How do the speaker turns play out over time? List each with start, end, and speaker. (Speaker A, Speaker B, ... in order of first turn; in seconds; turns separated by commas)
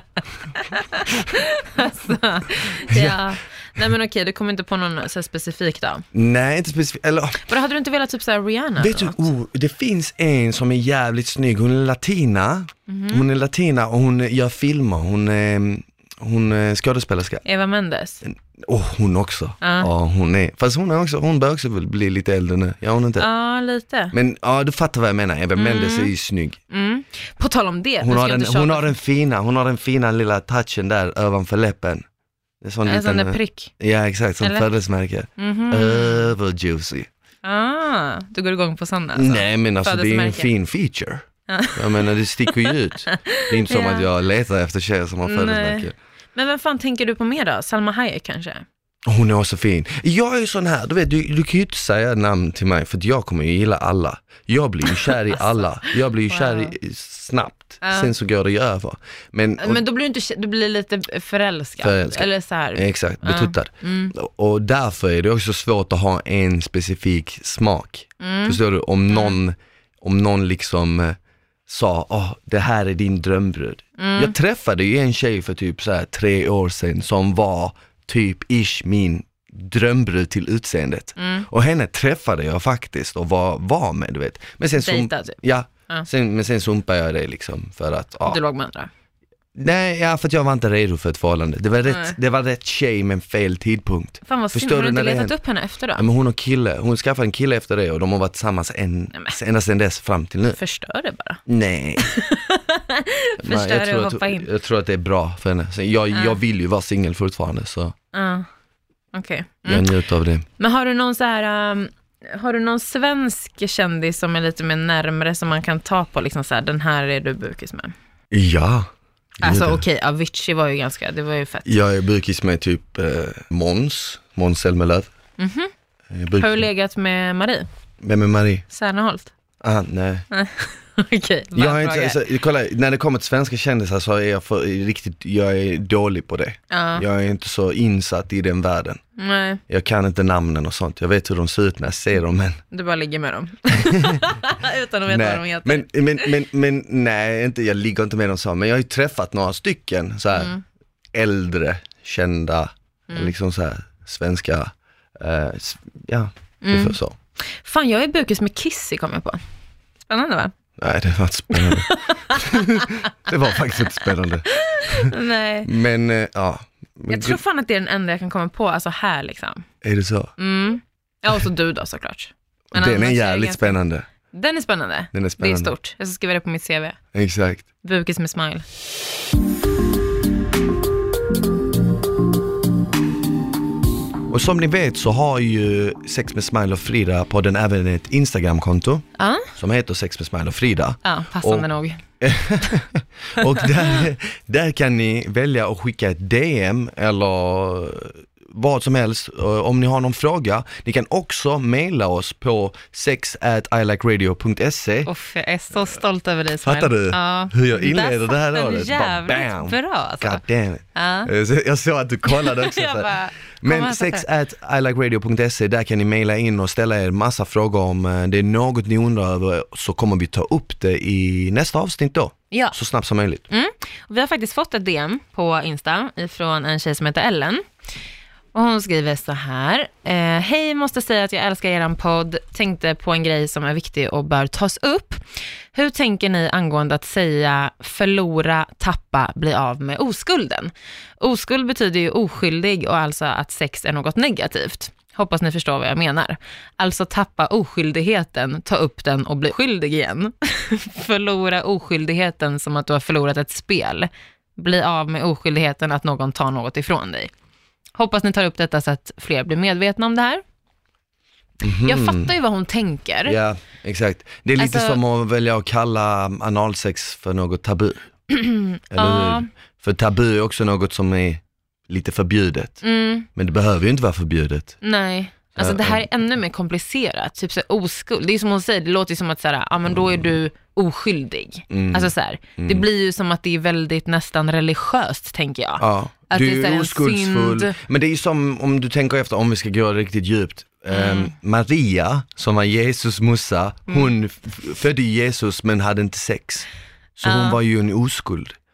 Speaker A: 0.6-6.0, Speaker B: 2.9-3.2, Speaker B: 6.1-7.5, Speaker A: 7.5-9.3, Speaker B: 8.8-17.4, Speaker A: 12.9-13.3, Speaker A: 17.4-18.2, Speaker B: 18.2-23.3, Speaker A: 19.6-19.9, Speaker A: 23.2-24.1, Speaker B: 24.1-26.6, Speaker A: 25.6-26.1, Speaker A: 26.7-28.9, Speaker B: 28.0-32.0, Speaker B: 32.6-37.1, Speaker A: 32.9-33.7, Speaker A: 34.4-34.7, Speaker A: 35.4-36.3, Speaker A: 37.4-40.5, Speaker B: 39.1-46.0, Speaker A: 41.5-44.1, Speaker A: 45.2-48.6, Speaker B: 49.1-59.8, Speaker A: 56.3-56.7, Speaker A: 57.8-58.1, Speaker A: 59.6-64.1, Speaker B: 61.8-88.4, Speaker A: 68.2-69.4, Speaker A: 74.0-74.3, Speaker A: 81.2-81.5, Speaker A: 84.8-86.1, Speaker A: 88.3-88.9, Speaker B: 89.5-95.4, Speaker A: 91.9-92.2, Speaker A: 94.3-96.0, Speaker B: 96.0-100.6, Speaker A: 100.5-101.4, Speaker B: 101.5-102.1, Speaker A: 102.0-104.5, Speaker B: 103.4-108.0, Speaker A: 106.1-106.4, Speaker A: 108.1-108.5, Speaker A: 109.1-109.9, Speaker B: 109.7-110.5, Speaker A: 110.6-117.9, Speaker B: 118.3-118.9, Speaker B: 119.4-119.8, Speaker A: 119.4-121.7, Speaker B: 121.7-125.1, Speaker A: 125.4-125.7, Speaker B: 126.1-126.7, Speaker A: 126.3-127.7, Speaker B: 128.0-128.7, Speaker A: 128.7-129.3, Speaker B: 129.6-130.3, Speaker A: 130.3-132.2, Speaker B: 131.6-139.0, Speaker A: 136.7-137.1, Speaker A: 139.2-139.6, Speaker B: 139.7-142.6, Speaker A: 142.7-146.3, Speaker B: 143.8-144.2, Speaker B: 145.1-150.5, Speaker A: 150.3-150.6, Speaker B: 151.1-157.2, Speaker A: 156.6-159.4, Speaker A: 160.1-160.5, Speaker B: 160.8-167.4, Speaker A: 161.5-163.1, Speaker A: 164.5-165.7, Speaker A: 167.1-169.7, Speaker B: 169.8-170.3, Speaker A: 170.4-173.8, Speaker B: 172.7-174.1, Speaker A: 174.3-177.0, Speaker B: 175.1-175.7, Speaker B: 177.1-177.7, Speaker A: 177.8-178.7, Speaker B: 184.3-191.7, Speaker A: 189.2-189.5, Speaker A: 191.0-192.0, Speaker B: 192.2-205.1, Speaker A: 205.1-210.4, Speaker B: 206.6-223.4, Speaker A: 210.9-211.3, Speaker A: 212.3-214.3, Speaker A: 223.5-227.6, Speaker A: 228.5-235.2, Speaker A: 235.7-257.3, Speaker A: 258.0-260.4, Speaker B: 261.6-262.3, Speaker A: 261.8-263.4, Speaker B: 263.3-268.1, Speaker A: 264.6-265.0, Speaker A: 268.3-269.5, Speaker B: 268.9-272.8, Speaker A: 272.8-273.3, Speaker B: 273.3-274.8, Speaker A: 274.8-287.8, Speaker B: 275.6-276.0, Speaker B: 281.7-282.9, Speaker B: 285.8-296.7, Speaker A: 290.9-291.3, Speaker B: 297.2-298.6, Speaker A: 297.2-297.6